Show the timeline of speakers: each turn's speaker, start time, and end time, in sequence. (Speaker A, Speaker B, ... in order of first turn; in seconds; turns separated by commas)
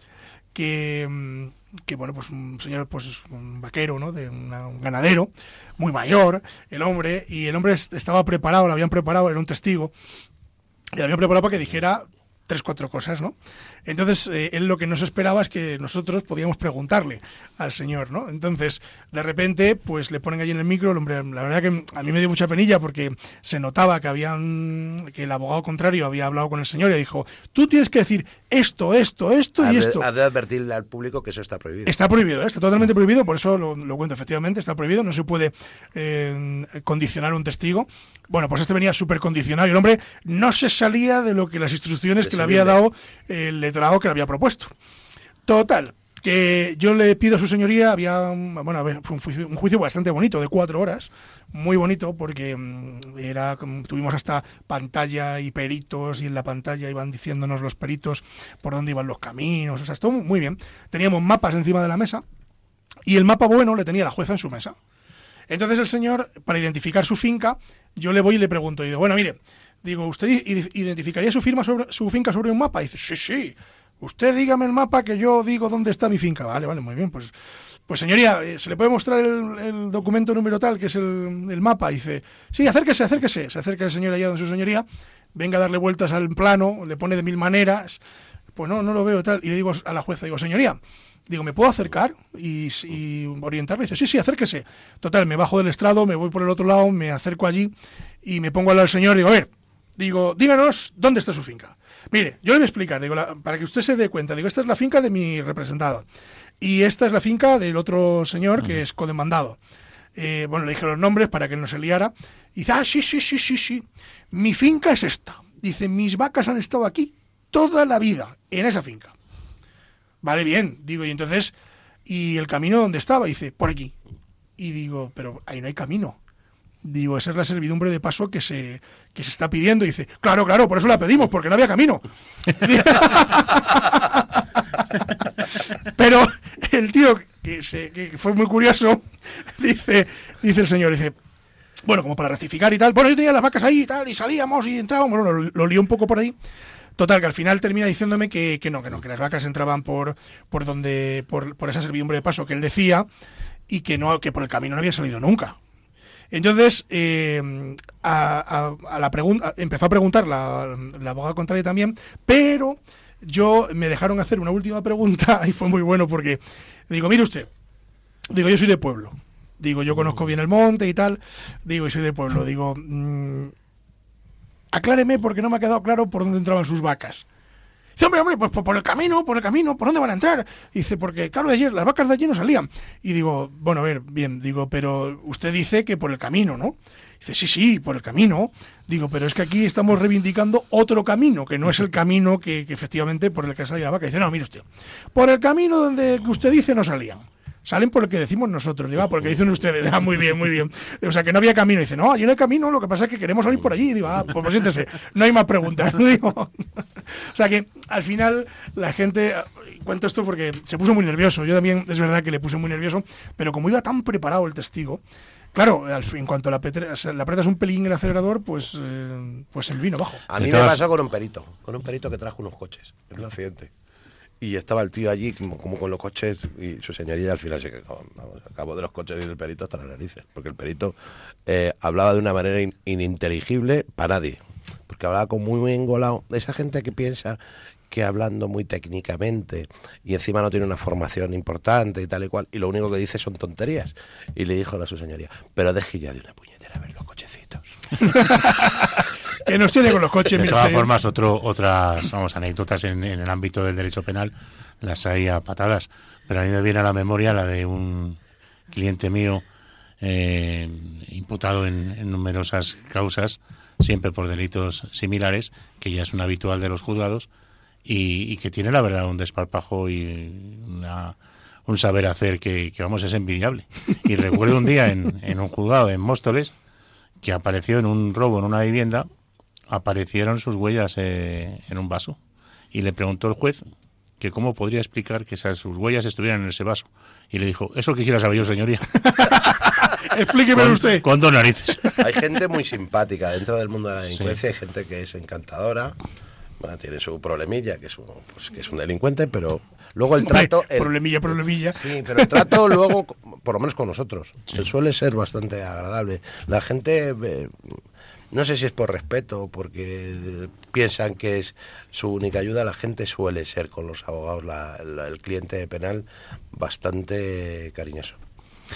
Speaker A: 0.6-9.9, Speaker A: 10.9-30.1, Speaker B: 29.6-32.0, Speaker A: 31.9-44.7, Speaker B: 42.2-42.8, Speaker A: 45.5-62.2, Speaker A: 63.1-64.8, Speaker A: 65.5-77.3, Speaker A: 77.9-88.0, Speaker A: 88.5-97.7, Speaker A: 98.2-106.0, Speaker A: 106.6-109.6, Speaker A: 110.2-119.2, Speaker A: 120.2-121.5, Speaker A: 122.1-123.9, Speaker A: 124.6-126.2, Speaker A: 126.8-134.3, Speaker A: 135.8-139.1, Speaker A: 139.6-141.2, Speaker A: 141.8-146.3, Speaker A: 147.0-153.1, Speaker A: 153.7-155.6, Speaker A: 156.3-167.5, Speaker A: 168.3-173.5, Speaker A: 174.7-177.2, Speaker A: 178.0-215.0, Speaker A: 215.5-220.2, Speaker B: 220.3-223.7, Speaker C: 220.4-220.8, Speaker B: 224.4-237.4, Speaker B: 237.9-247.7, Speaker A: 248.0-250.9, Speaker C: 250.4-258.2, Speaker C: 258.7-259.4, Speaker C: 260.0-267.3, Speaker C: 267.9-271.1, Speaker C: 271.7-276.5, Speaker C: 277.2-279.1, Speaker C: 279.7-282.2, Speaker C: 282.7-283.6, Speaker C: 284.2-289.1, Speaker A: 289.1-291.1, Speaker C: 290.5-291.9, Speaker B: 292.0-296.0, Speaker B: 296.6-300.9, Speaker A: 300.2-302.7, Speaker B: 301.7-307.8, Speaker B: 308.3-318.2